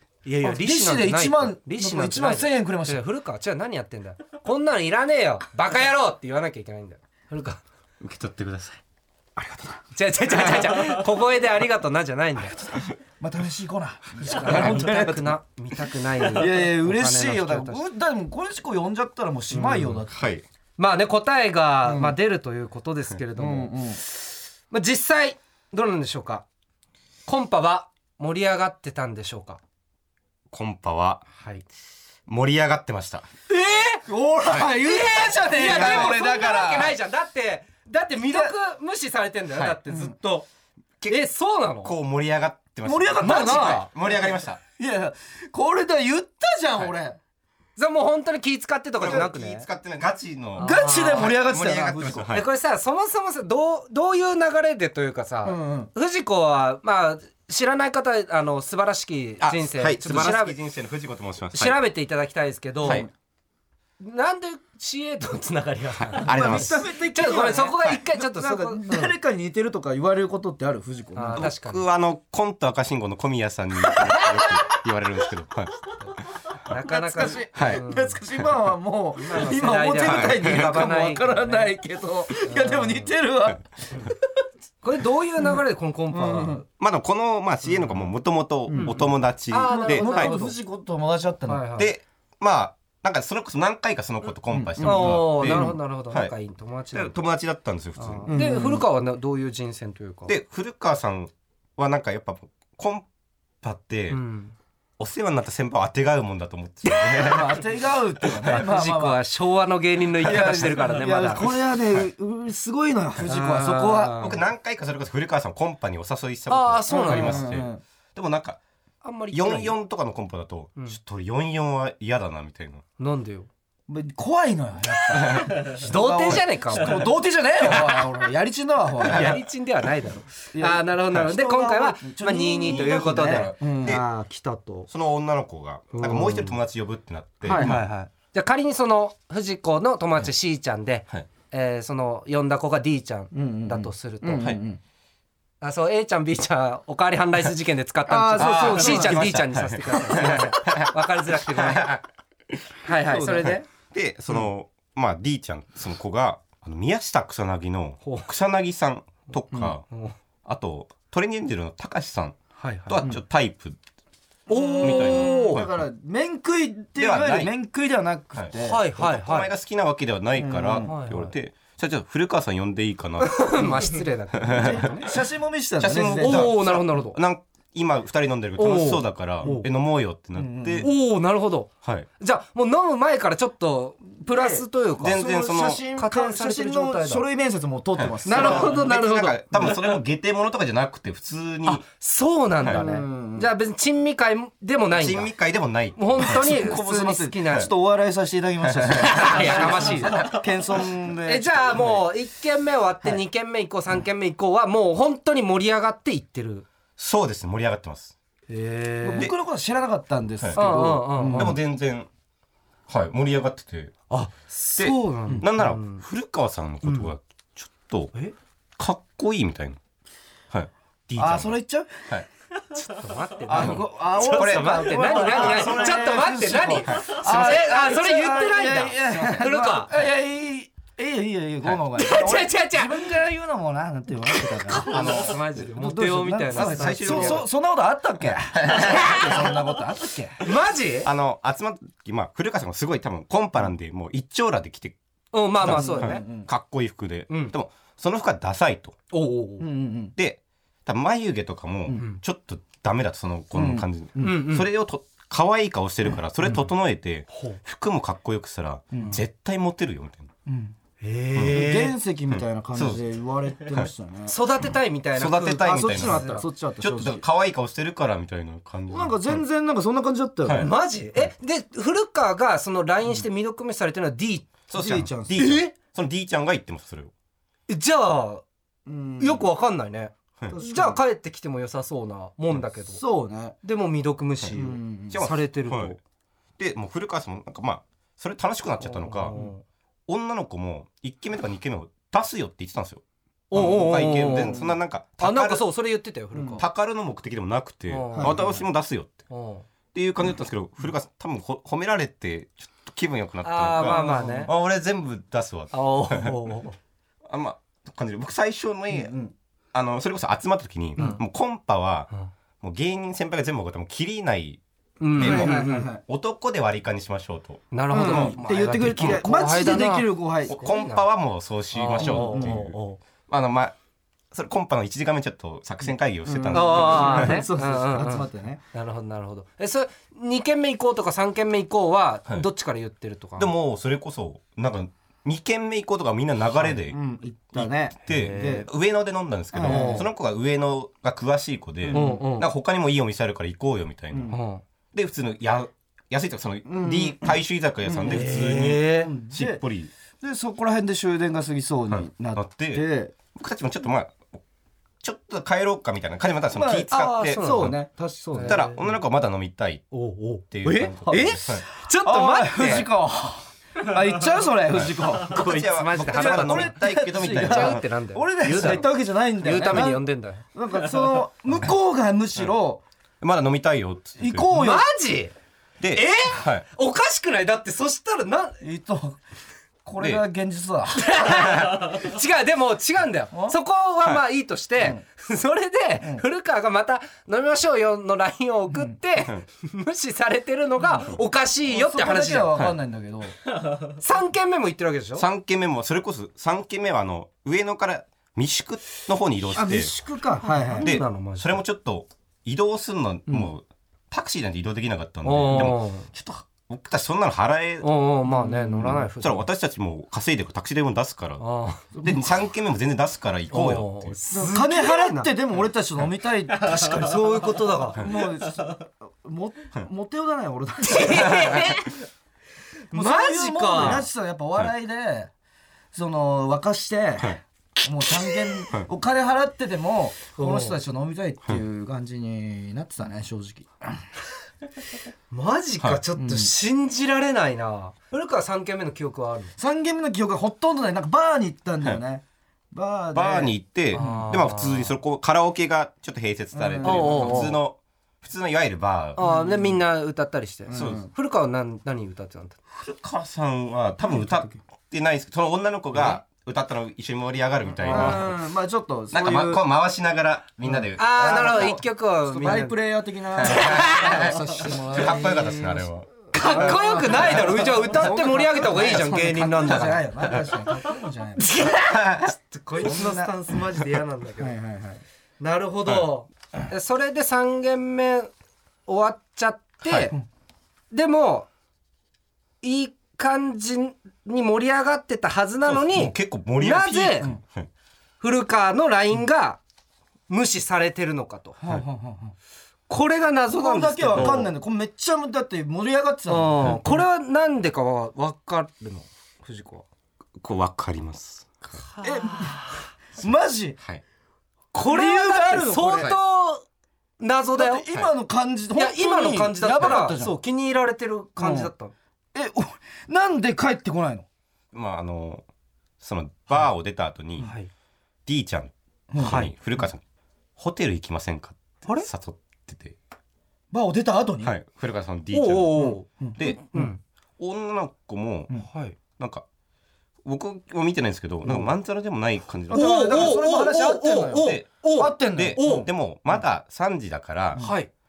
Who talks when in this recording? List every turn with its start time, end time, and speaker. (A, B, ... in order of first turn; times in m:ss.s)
0:00.2-0:07.6 A
0:00.4-0:03.0 B
0:08.0-0:08.8 C
0:09.4-0:09.8 B
0:09.9-0:12.6 A
0:10.3-0:11.0 C
0:13.2-0:15.4 B
0:14.2-0:17.8 A
0:16.3-0:20.2 B
0:19.5-0:20.0 A
0:20.1-0:20.4 C
0:20.8-0:23.7 A
0:21.8-0:22.2 B
0:23.4-0:24.0 B
0:24.7-0:26.4 A
0:27.3-0:29.6 A
0:30.5-0:31.2 C
0:31.4-0:31.6 A
0:32.3-0:33.3 C
0:33.5-0:34.0 A
0:34.0-0:37.0 B
0:34.7-0:40.4 A
0:35.7-0:36.1 C
0:38.3-0:38.5 B
0:39.9-0:40.1 B
0:41.0-0:41.3 C
0:41.1-0:41.9 A
0:41.8-0:44.6 C
0:42.8-0:43.9 B
0:43.2-0:43.9 A
0:44.8-0:47.2 B
0:47.8-0:49.6 A
0:49.0-0:52.4 C
0:50.6-0:51.3 A
0:50.6-0:52.4 B
0:52.3-1:00.6 A
0:55.4-0:55.9 B
0:59.4-1:01.8 C
1:01.5-1:03.1 A
1:04.0-1:09.1 A
1:06.0-1:06.8 C
1:06.2-1:11.5 B
1:11.2-1:11.9 A
1:11.3-1:15.7 C
1:14.1-1:14.5 A
1:16.0-1:18.2 A
1:16.7-1:24.2 B
1:17.5-1:17.8 C
1:19.2-1:21.7 A
1:20.0-1:20.7 C
1:22.4-1:23.1 A
1:24.8-1:26.6 A
1:26.1-1:26.6 B
1:26.8-1:30.4 C
1:27.7-1:28.0 A
1:28.7-1:29.0 B
1:28.7-1:30.5 A
1:29.7-1:31.6 B
1:31.5-1:31.9 A
1:31.8-1:36.3 C
1:34.5-1:35.7 B
1:34.8-1:37.2 A
1:36.9-1:38.3 C
1:38.0-1:40.3 A
1:38.3-1:38.8 B
1:40.3-1:43.0 C
1:43.6-1:44.2 C
1:44.1-1:44.5 A
1:45.0-1:47.6 C
1:46.8-1:47.3 A
1:47.2-1:49.2 B
1:48.4-1:51.5 A
1:50.2-1:54.2 B
1:50.2-1:50.6 C
1:53.2-1:54.4 A
1:54.1-1:58.6 C
1:56.5-1:57.4 A
1:56.9-1:57.8 B
1:59.0-1:59.8 A
1:59.3-2:02.8 C
2:03.0-2:03.5 A
2:03.9-2:09.4 B
2:05.2-2:05.5 C
2:05.2-2:08.0 A
2:09.0-2:14.9 A
2:09.0-2:09.4 C
2:10.5-2:14.0 B
2:12.6-2:14.0 C
2:14.9-2:17.8 C
2:15.9-2:16.6 A
2:17.4-2:17.8 B
2:17.4-2:24.5 A
2:23.3-2:24.8 B
2:25.6-2:31.9 A
2:28.1-2:29.2 B
2:28.4-2:32.6 C
2:30.1-2:30.4 B
2:32.8-2:33.7 A
2:33.0-2:33.6 B
2:33.4-2:39.8 C
2:38.0-2:38.3 A
2:40.4-2:43.8 C
2:42.6-2:43.1 A
2:44.5-2:45.6 A
2:44.5-2:48.8 B
2:44.8-2:45.8 C
2:47.0-2:47.5 C
2:48.3-2:53.8 C
2:48.5-2:49.5 A
2:50.4-2:50.9 B
2:50.8-2:51.3 A
2:53.2-2:55.1 A
2:54.4-2:55.1 C
2:54.5-2:56.5 B
2:55.8-3:00.9 C
2:56.2-2:57.2 A
2:58.6-2:59.6 A
3:00.4-3:00.9 B
3:00.8-3:07.2 A
3:01.8-3:02.1 C
3:04.3-3:04.6 B
3:05.0-3:05.8 C
3:05.2-3:08.9 B
3:08.0-3:11.8 C
3:08.2-3:09.9 A
3:11.7-3:15.3 A
3:12.6-3:12.8 C
3:12.7-3:13.5 B
3:14.9-3:16.7 C
3:16.0-3:17.7 A
3:16.2-3:21.9 B
3:18.6-3:19.7 C
3:18.9-3:20.4 A
3:21.2-3:26.6 A
3:27.0-3:28.2 C
3:28.5-3:29.3 A
3:29.0-3:31.6 B
3:30.4-3:32.1 C
3:30.5-3:31.6 A
3:32.9-3:33.9 C
3:34.1-3:36.0 A
3:34.8-3:38.1 C
3:36.8-3:37.1 A
3:38.8-3:39.8 C
3:40.5-3:41.6 C
3:41.2-3:42.0 B
3:42.6-3:49.9 A
3:43.5-4:00.4 B
3:43.5-3:47.6 C
3:51.9-3:53.1 A
3:54.3-3:57.4 A
3:54.8-3:55.5 C
3:56.5-3:57.5 C
3:58.4-3:59.5 C
3:58.7-3:59.4 A
4:00.4-4:01.1 A
4:01.0-4:05.0 C
4:05.3-4:06.2 A
4:05.6-4:09.0 C
4:05.6-4:06.5 B
4:07.3-4:07.5 A
4:09.1-4:09.6 A
4:09.6-4:10.1 B
4:10.2-4:20.3 C
4:13.5-4:14.4 B
4:14.2-4:14.7 A
4:17.3-4:17.6 A
4:18.9-4:19.2 B
4:20.5-4:20.7 B
4:21.0-4:21.9 A
4:21.3-4:21.7 C
4:21.5-4:24.3 B
4:22.3-4:23.0 C
4:24.3-4:26.4 A
4:25.1-4:29.4 C
4:25.6-4:27.2 B
4:28.9-4:30.7 B
4:30.4-4:31.3 C
4:30.6-4:35.7 A
4:34.7-4:37.1 C
4:34.7-4:35.4 B
4:37.7-4:38.4 A
4:38.8-4:39.5 B
4:39.2-4:43.0 A
4:40.5-4:41.0 B
4:43.0-4:43.6 B
4:43.6-4:46.0 A
4:44.6-4:45.2 B
4:45.1-4:46.0 C
4:46.6-4:49.3 C
4:49.1-4:49.6 A
4:50.1-4:55.6 C
4:53.5-4:54.6 A
4:54.4-4:54.7 B
4:55.2-4:56.6 A
4:56.3-4:56.6 B
4:56.6-4:59.1 C
4:57.9-4:58.6 A
4:58.2-4:58.5 B
4:59.3-4:59.6 A
4:59.9-5:06.4 C
5:03.4-5:04.5 A
5:03.9-5:04.2 B
5:05.7-5:06.8 A
5:07.3-5:09.2 C
5:08.9-5:09.3 B
5:09.7-5:12.1 C
5:12.6-5:14.6 C
5:15.0-5:15.9 A
5:15.2-5:19.2 C
5:15.2-5:16.0 B
5:17.7-5:21.0 A
5:17.9-5:20.6 B
5:20.5-5:22.8 C
5:21.7-5:23.0 A
5:22.0-5:22.6 B
5:23.3-5:23.7 C
5:24.3-5:27.4 C
5:26.3-5:28.6 B
5:26.5-5:33.5 A
5:33.4-5:37.0 C
5:36.6-5:38.7 B
5:37.6-5:44.4 C
5:38.1-5:38.6 A
5:39.5-5:40.1 B
5:39.7-5:40.0 A
5:41.8-5:42.2 B
5:41.9-5:42.5 A
5:44.1-5:44.4 B
5:44.3-5:44.6 A
5:44.9-5:49.9 C
5:46.6-5:47.4 B
5:47.9-5:49.6 B
5:48.0-5:49.1 A
5:50.2-5:53.1 B
5:51.9-5:54.3 C
5:55.0-5:57.8 C
5:56.5-5:58.7 B
5:56.9-5:57.7 A
5:58.3-5:58.8 A
5:58.4-5:59.8 C
5:59.9-6:02.9 A
6:00.5-6:01.6 C
6:01.1-6:12.8 B
6:04.7-6:07.8 C
6:05.3-6:08.9 A
6:08.5-6:08.8 C
6:09.4-6:10.4 A
6:13.2-6:14.5 C
6:14.2-6:14.8 B
6:14.5-6:15.3 A
6:15.8-6:16.6 C
6:15.9-6:18.6 A
6:18.6-6:19.2 B
6:19.8-6:21.0 B
6:21.0-6:32.5 A
6:21.3-6:21.8 C
6:31.7-6:33.4 B
6:33.8-6:35.2 A
6:35.2-6:39.9 C
6:39.5-6:40.9 B
6:40.8-6:41.6 A
6:40.8-6:47.9 C
6:45.2-6:46.1 A
6:47.8-6:49.4 A
6:48.3-6:49.0 B
6:49.2-6:54.1 C
6:51.4-6:51.8 A
6:51.9-6:52.4 B
6:53.5-6:55.3 A
6:54.3-6:56.8 B
6:56.6-6:58.1 A
6:57.9-7:01.7 B
7:00.8-7:02.0 A
7:01.2-7:01.7 C
7:02.9-7:04.0 A
7:02.9-7:05.3 B
7:05.9-7:14.0 B
7:10.4-7:10.8 A
7:15.3-7:19.5 A
7:16.2-7:16.5 B
7:19.6-7:24.3 B
7:23.1-7:29.2 C
7:23.9-7:24.9 A
7:26.5-7:27.5 B
7:26.8-7:27.6 A
7:29.2-7:32.6 A
7:29.2-7:29.6 B
7:30.7-7:31.1 B
7:30.7-7:31.0 C
7:32.7-7:38.3 C
7:34.1-7:34.4 B
7:37.8-7:38.2 A
7:37.8-7:39.6 B
7:39.1-7:41.7 C
7:40.6-7:45.8 B
7:41.0-7:42.8 A
7:43.4-7:48.1 C
7:43.4-7:45.4 A
7:46.3-7:50.0 A
7:46.4-7:51.5 B
7:49.6-7:50.6 C
7:51.4-7:54.5 A
7:51.6-7:52.3 C
7:52.8-7:53.3 B
7:54.4-7:55.0 B
7:55.4-7:58.3 A
7:58.8-8:00.1 A
7:59.8-8:00.1 C
8:00.9-8:01.5 A
8:02.6-8:07.3 A
8:05.6-8:07.7 C
8:08.2-8:09.6 A
8:10.3-8:11.6 A
8:11.6-8:12.3 B
8:12.9-8:14.5 A
8:13.5-8:17.0 B
8:14.2-8:14.4 C
8:16.3-8:19.8 A
8:20.4-8:21.8 C
8:21.8-8:22.8 A
8:22.0-8:23.8 B
8:24.7-8:26.6 A
8:24.8-8:26.1 B
8:27.2-8:27.9 A
8:27.5-8:30.4 B
8:28.7-8:31.9 A
8:31.4-8:31.7 B
8:32.3-8:34.2 B
8:34.7-8:35.4 C
8:36.0-8:37.5 C
8:37.4-8:37.7 A
8:38.2-8:40.0 C
8:39.1-8:39.4 B
8:39.2-8:39.5 A
8:40.6-8:43.0 C
8:43.7-8:44.5 B
8:44.4-8:46.6 C
8:45.3-8:47.0 A
8:45.8-8:46.8 B
8:47.4-8:48.5 C
8:48.7-8:49.0 A
8:49.2-8:49.4 C
8:50.2-8:53.4 C
8:52.7-8:55.6 B
8:52.7-8:55.9 A
8:54.2-8:54.7 C
8:55.2-8:57.6 C
8:57.6-8:57.9 A